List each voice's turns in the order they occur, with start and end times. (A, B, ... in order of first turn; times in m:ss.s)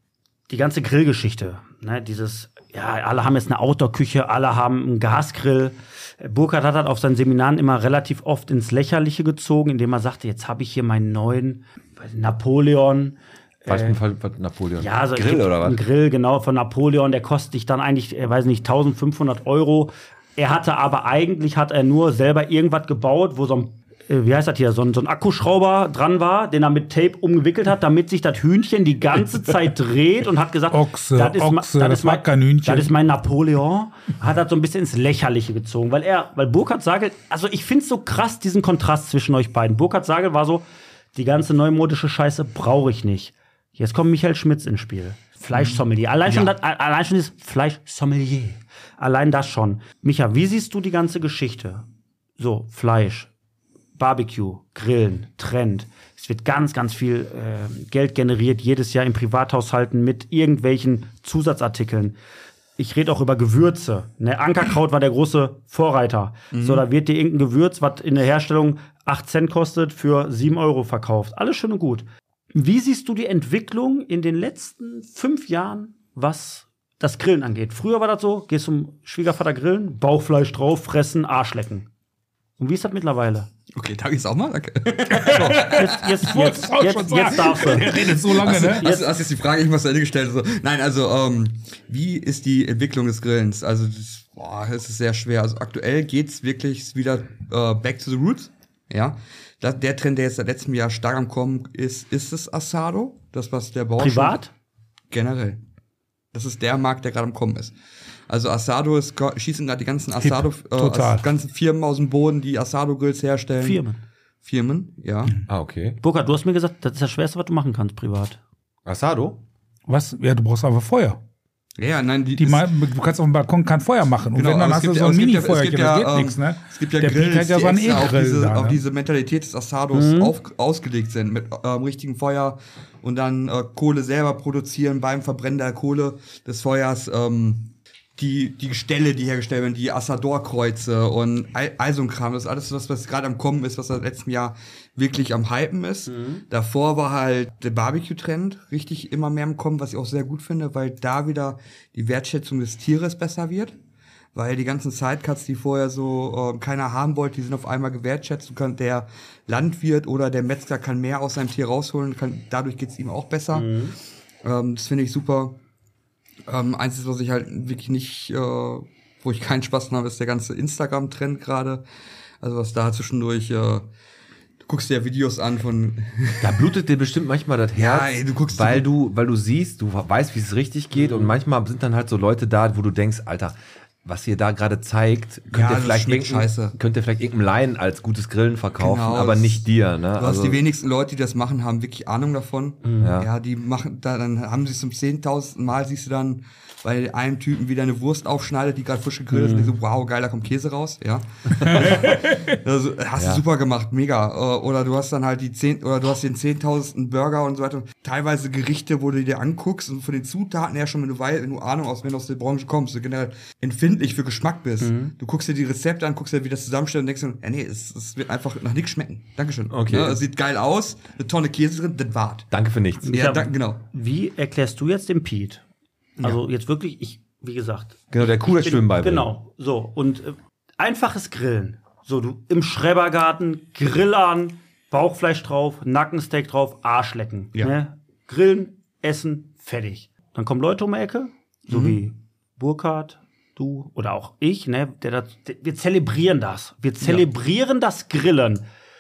0:00.5-0:14.0 A
0:13.7-0:15.8 B
0:14.8-0:40.6 A
0:30.7-0:32.9 C
0:41.2-0:51.9 A
0:45.5-0:46.5 D
0:52.4-0:53.3 A
0:54.0-1:02.2 A
1:02.8-1:21.9 A
1:06.5-1:06.8 D
1:22.6-1:23.5 A
1:23.8-1:26.2 D
1:25.2-1:28.9 C
1:25.4-1:29.1 A
1:27.4-1:44.4 D
1:44.0-1:44.5 A
1:45.1-1:45.6 D
1:46.3-1:47.8 D
1:48.3-1:53.8 D
1:50.2-1:51.3 C
1:53.6-1:54.0 A
1:54.4-1:55.3 D
1:55.5-1:56.0 B
1:56.0-1:58.4 A
1:58.8-1:59.4 B
1:59.9-2:01.2 C
2:01.8-2:02.7 D
2:02.4-2:08.8 C
2:04.4-2:33.8 D
2:09.9-2:10.3 A
2:26.1-2:26.4 A
2:34.4-2:43.7 D
2:43.5-2:44.0 A
2:44.4-2:45.6 D
2:46.5-2:51.8 D
2:52.4-2:53.9 D
2:54.6-2:56.6 D
2:56.4-3:10.6 B
2:57.8-2:58.9 D
3:05.5-3:06.8 D
3:08.8-3:09.7 D
3:10.2-3:42.5 D
3:12.8-3:13.1 A
3:13.0-3:13.3 B
3:19.3-3:19.8 A
3:23.2-3:23.4 B
3:34.8-3:35.1 A
3:39.7-3:40.2 B
3:42.5-3:43.1 B
3:43.1-3:45.6 A
3:43.1-3:43.8 D
3:46.2-4:08.6 A
3:48.1-3:49.3 B
4:01.7-4:02.0 D